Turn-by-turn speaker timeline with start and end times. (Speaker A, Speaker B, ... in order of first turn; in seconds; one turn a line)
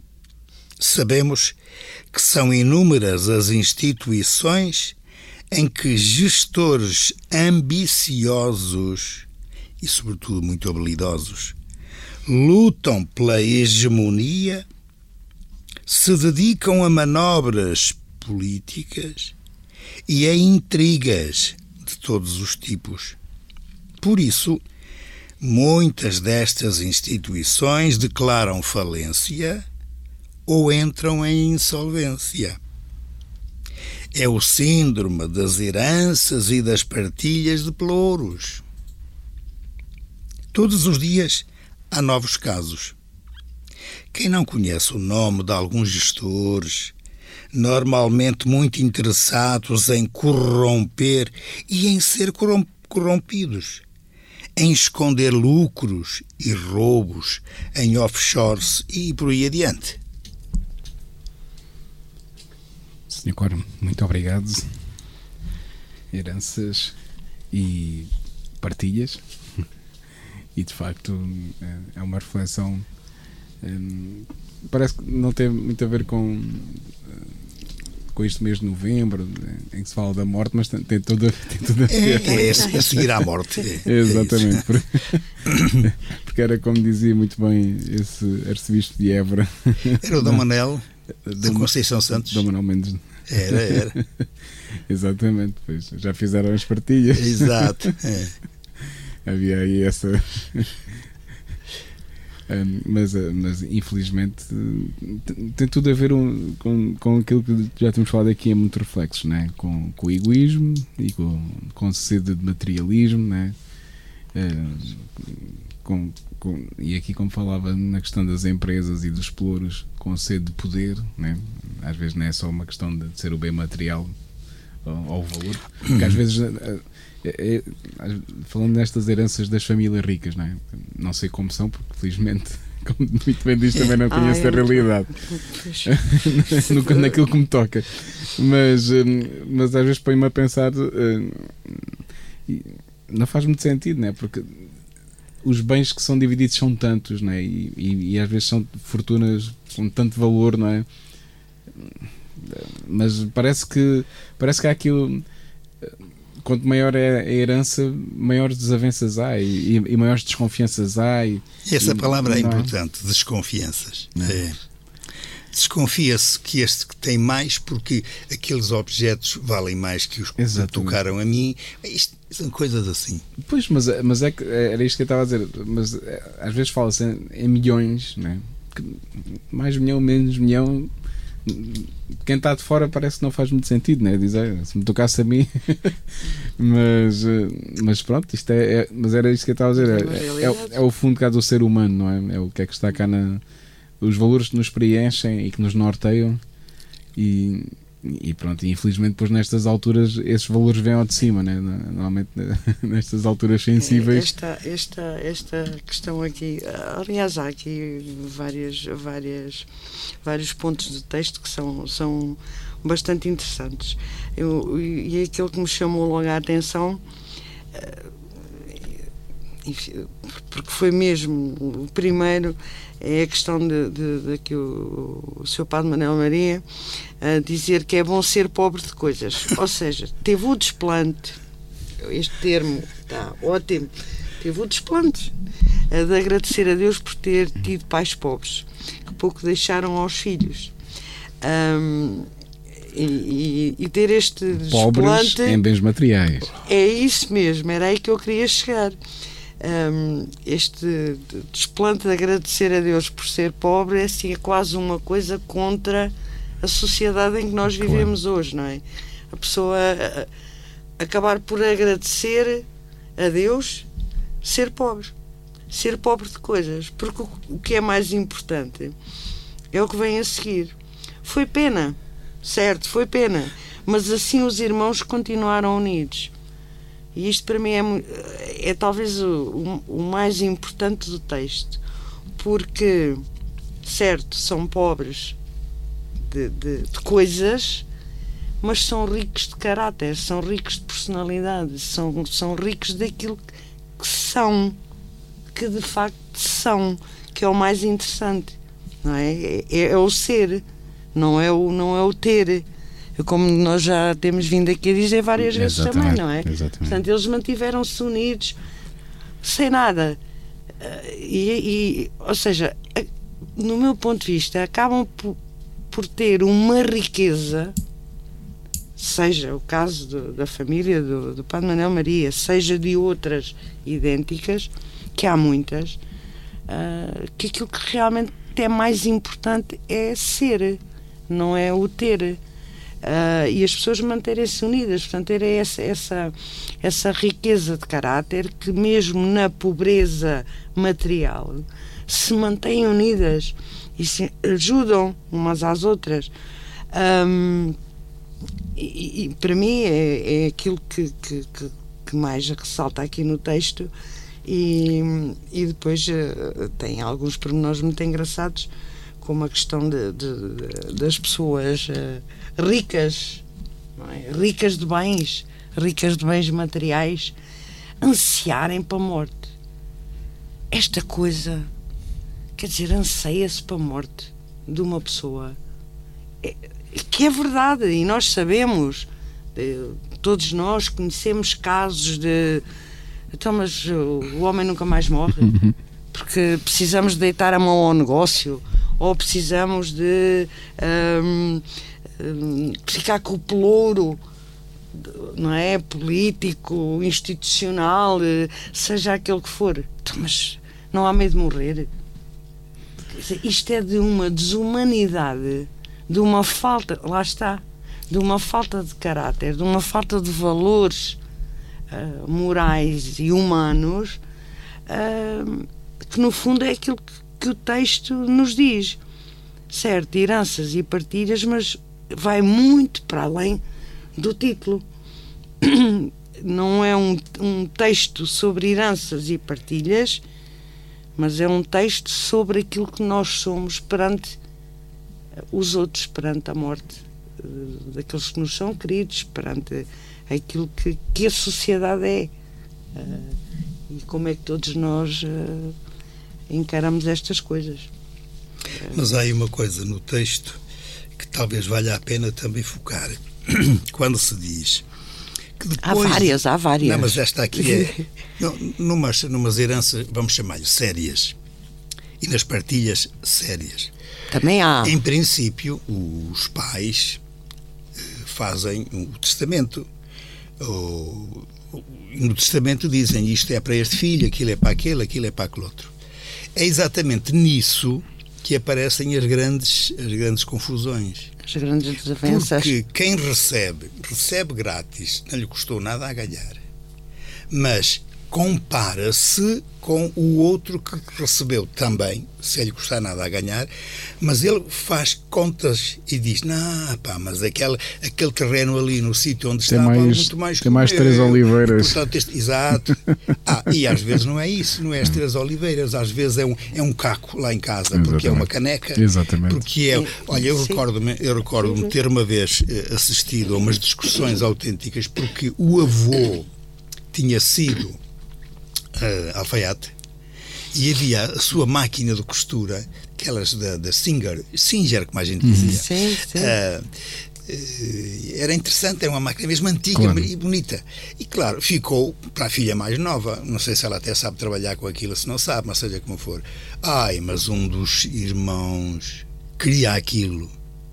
Speaker A: 0.8-1.6
Speaker A: 2.1-5.0
Speaker A: 5.5-9.3
Speaker A: 9.8-11.6
Speaker A: 12.3-14.7
Speaker A: 15.9-19.3
Speaker A: 20.1-23.2
Speaker A: 24.0-24.6
Speaker A: 25.4-29.6
Speaker A: 30.5-32.6
Speaker A: 34.1-38.6
Speaker A: 40.5-43.0
Speaker A: 44.1-46.9
Speaker A: 47.5-53.8
Speaker A: 54.5-60.0
Speaker B: 63.1-64.7
Speaker B: 66.1-66.9
Speaker B: 67.5-69.6
Speaker B: 70.5-72.8
Speaker B: 73.6-77.4
Speaker B: 78.1-83.1
Speaker A: 81.9-84.6
Speaker C: 82.2-82.8
Speaker B: 83.8-90.4
Speaker A: 85.5-85.8
Speaker A: 90.0-90.8
Speaker B: 91.2-94.0
Speaker A: 91.4-92.5
Speaker A: 93.3-94.0
Speaker B: 94.9-97.9
Speaker A: 97.1-98.3
Speaker B: 99.2-100.9
Speaker B: 102.5-113.5
Speaker B: 114.3-124.1
Speaker B: 124.8-135.1
Speaker A: 125.8-126.2
Speaker C: 134.1-135.9
Speaker B: 135.8-144.7
Speaker C: 136.5-137.1
Speaker B: 145.4-150.8
Speaker B: 151.8-155.2
Speaker B: 155.8-162.7
Speaker A: 161.6-164.6
Speaker A: 165.5-173.2
Speaker B: 170.4-171.0
Speaker B: 173.4-180.9
Speaker B: 181.4-186.0
Speaker B: 186.6-193.4
Speaker C: 189.8-190.8
Speaker B: 194.0-196.4
Speaker B: 197.2-204.3
Speaker C: 203.8-209.7
Speaker C: 210.2-217.0
Speaker C: 217.7-218.9
Speaker C: 219.6-226.6
Speaker C: 227.2-231.4
Speaker C: 232.0-235.3
Speaker C: 235.9-240.7
Speaker C: 241.4-245.6
Speaker B: 244.7-246.6
Speaker C: 246.6-249.0
Speaker C: 249.6-260.3
Speaker B: 257.8-258.1
Speaker C: 261.0-262.6
Speaker C: 263.2-263.9
Speaker C: 264.4-265.1
Speaker C: 265.7-268.9
Speaker C: 269.7-276.3
Speaker C: 277.1-281.8
Speaker C: 282.4-283.2
Speaker C: 283.8-285.4
Speaker C: 286.2-287.9
Speaker C: 288.6-293.4
Speaker C: 294.0-294.8
Speaker C: 295.5-300.6
Speaker C: 301.1-302.6
Speaker C: 303.2-308.6
Speaker B: 305.5-307.0
Speaker C: 309.4-310.2
Speaker C: 310.8-315.4
Speaker C: 315.9-317.7
Speaker C: 319.0-326.0
Speaker C: 326.7-332.4
Speaker C: 333.0-346.3
Speaker C: 346.9-347.8
Speaker C: 348.7-353.9
Speaker C: 354.4-363.4
Speaker C: 364.0-367.3
Speaker C: 368.0-369.5
Speaker C: 370.7-371.7
Speaker C: 372.6-375.6
Speaker C: 376.4-382.6
Speaker C: 383.3-385.6
Speaker B: 385.5-385.7
Speaker C: 386.1-391.6
Speaker C: 392.2-394.2
Speaker C: 394.9-401.9
Speaker C: 403.1-411.2
Speaker C: 411.9-414.2
Speaker C: 414.9-419.0
Speaker C: 419.7-423.6
Speaker C: 424.1-424.9
Speaker C: 425.6-430.2
Speaker C: 431.2-434.4
Speaker C: 435.5-442.3
Speaker C: 442.9-443.4
Speaker C: 443.9-445.7
Speaker C: 446.5-447.9
Speaker A: 448.9-450.6
Speaker A: 451.1-454.8
Speaker A: 455.6-461.4
Speaker C: 455.8-458.0
Speaker A: 462.2-463.9
Speaker C: 464.3-465.0
Speaker A: 464.8-467.2
Speaker A: 468.0-469.9
Speaker A: 470.6-475.9
Speaker A: 476.5-481.3
Speaker C: 481.4-482.7
Speaker A: 482.2-486.6
Speaker A: 487.5-493.7
Speaker A: 494.2-516.5
Speaker B: 499.7-502.0
Speaker B: 507.9-509.6
Speaker C: 509.9-510.8
Speaker A: 517.1-518.0
Speaker A: 518.9-519.9
Speaker A: 520.7-526.9
Speaker B: 525.4-525.8
Speaker C: 525.5-526.6
Speaker A: 527.4-540.5
Speaker B: 530.0-530.3